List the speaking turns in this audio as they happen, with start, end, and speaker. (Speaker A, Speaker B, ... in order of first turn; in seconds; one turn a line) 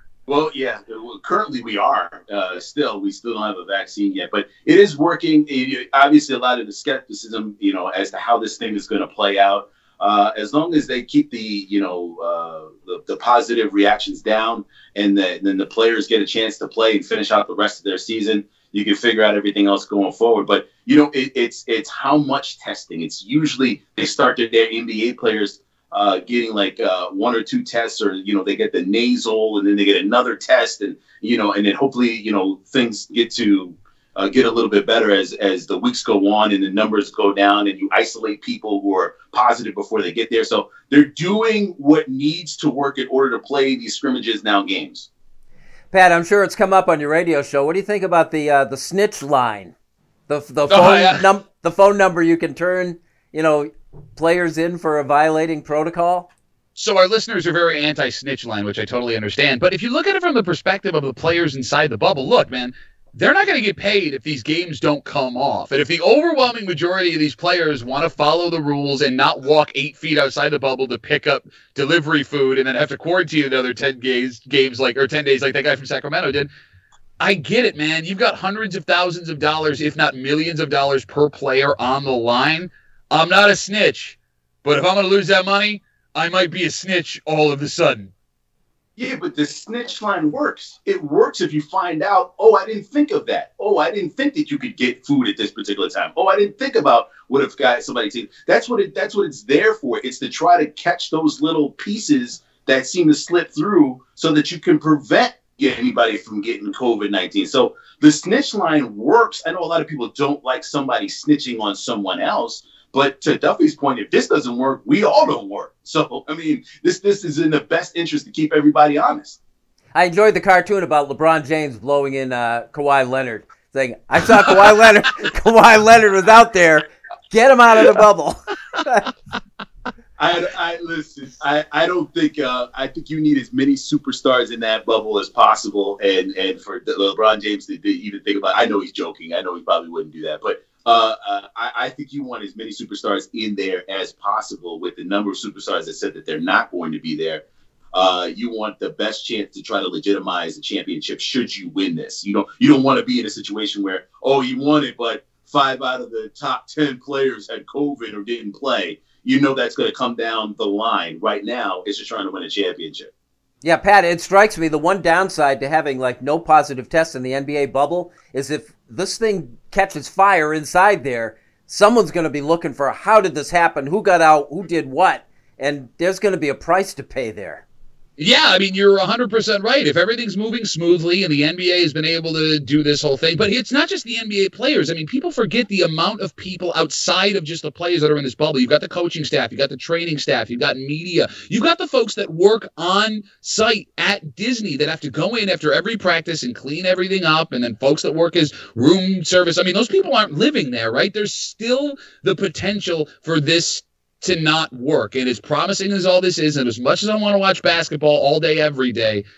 Speaker A: 0.3-45.1
Speaker B: 45.9-49.7
Speaker B: 50.3-56.3
Speaker C: 50.7-51.2
Speaker C: 56.8-76.5
Speaker C: 77.2-88.1
Speaker A: 89.0-119.4
Speaker B: 119.9-129.1
Speaker A: 130.2-147.4
Speaker A: 147.9-163.1
Speaker B: 163.6-177.6
Speaker C: 178.2-209.2